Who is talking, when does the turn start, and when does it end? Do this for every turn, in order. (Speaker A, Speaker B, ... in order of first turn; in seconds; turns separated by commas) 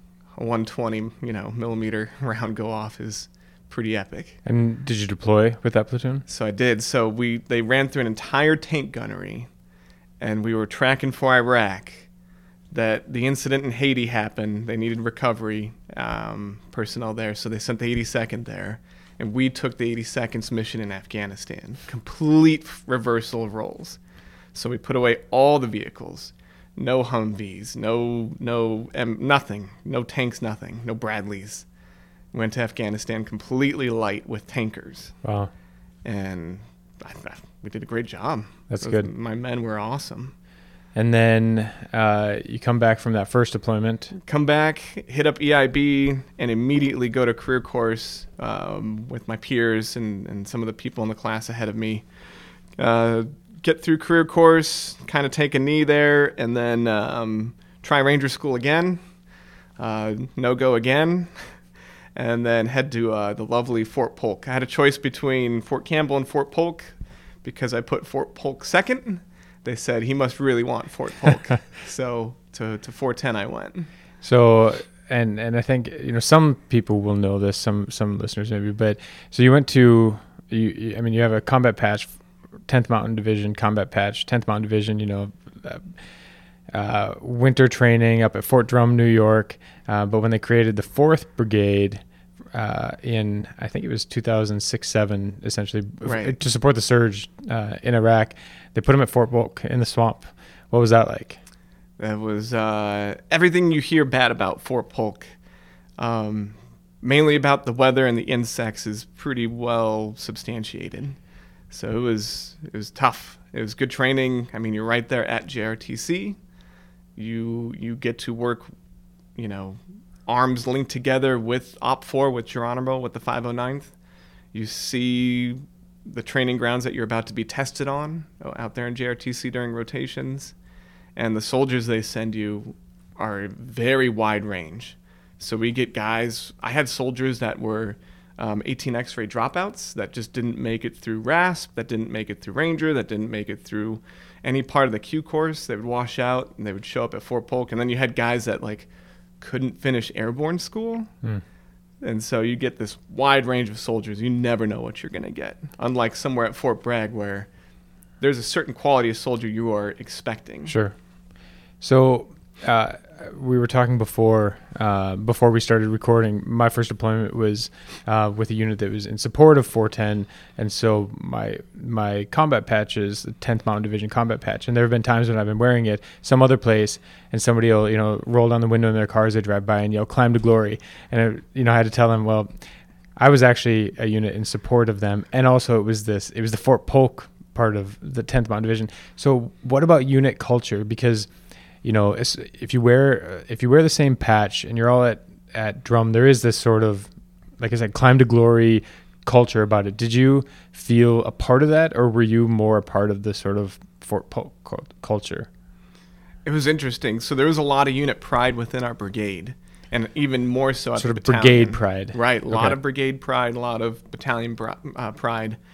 Speaker A: 0.4-4.4, Speaker B: 4.4-6.2, Speaker A: 6.3-9.5, Speaker A: 10.2-12.1, Speaker A: 12.7-24.0, Speaker A: 24.5-31.6, Speaker A: 32.3-35.2, Speaker B: 35.2-35.5, Speaker A: 36.0-40.3, Speaker B: 38.7-39.1, Speaker B: 40.9-44.1, Speaker A: 44.2-52.1, Speaker A: 52.8-59.0, Speaker A: 59.8-61.6, Speaker A: 62.1-73.9, Speaker B: 74.2-82.2, Speaker B: 82.7-86.0, Speaker B: 86.7-92.0, Speaker B: 92.5-101.4, Speaker A: 96.0-96.4, Speaker A: 102.0-105.3, Speaker A: 106.0-111.2, Speaker A: 111.7-116.4, Speaker A: 117.2-118.7, Speaker A: 119.4-123.9, Speaker A: 124.5-130.6, Speaker A: 131.2-148.9, Speaker A: 149.4-151.1, Speaker A: 152.0-157.5, Speaker A: 158.2-160.8, Speaker B: 160.7-161.0, Speaker B: 161.8-182.6, Speaker B: 183.2-191.3, Speaker B: 191.8-205.5, Speaker A: 206.4-215.6, Speaker B: 211.0-212.8